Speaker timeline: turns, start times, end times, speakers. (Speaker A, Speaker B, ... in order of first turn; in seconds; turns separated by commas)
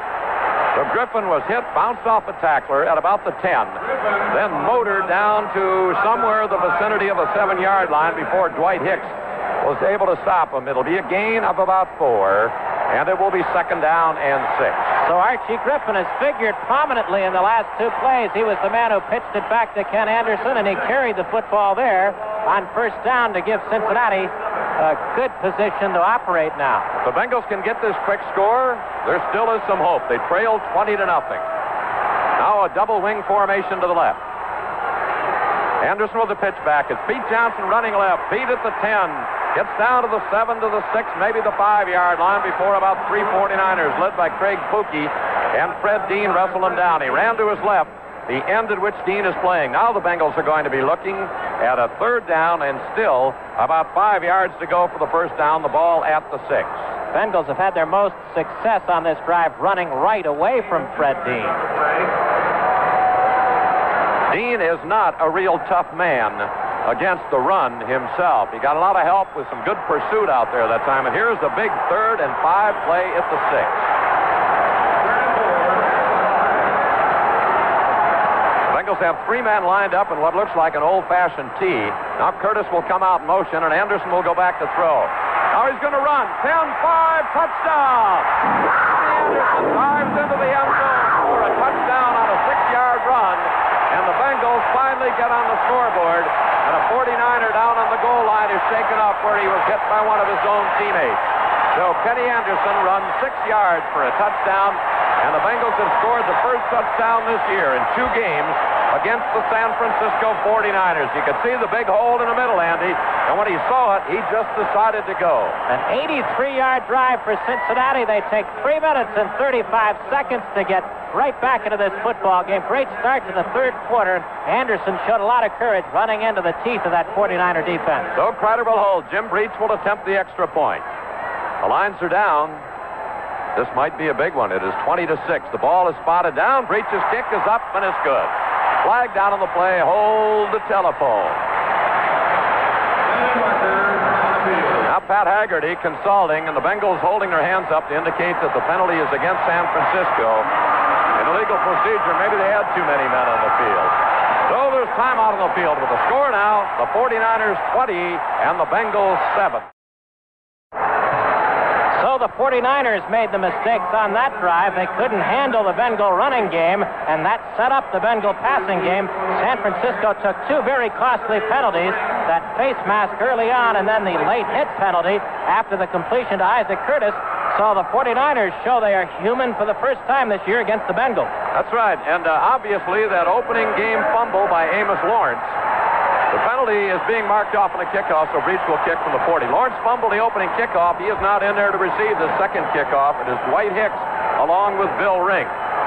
Speaker A: 0.7-14.9, Speaker B: 15.0-26.9, Speaker A: 27.0-31.4, Speaker A: 32.4-34.2, Speaker A: 35.8-57.0, Speaker B: 57.1-61.7, Speaker A: 64.3-73.9, Speaker A: 78.7-88.3, Speaker A: 88.8-115.6, Speaker B: 115.7-128.1, Speaker A: 128.2-130.8, Speaker A: 131.6-132.6, Speaker A: 133.6-141.4, Speaker A: 144.8-150.5, Speaker A: 151.2-154.0, Speaker A: 154.5-159.7, Speaker B: 161.9-181.3, Speaker A: 181.5-185.6, Speaker A: 186.3-195.5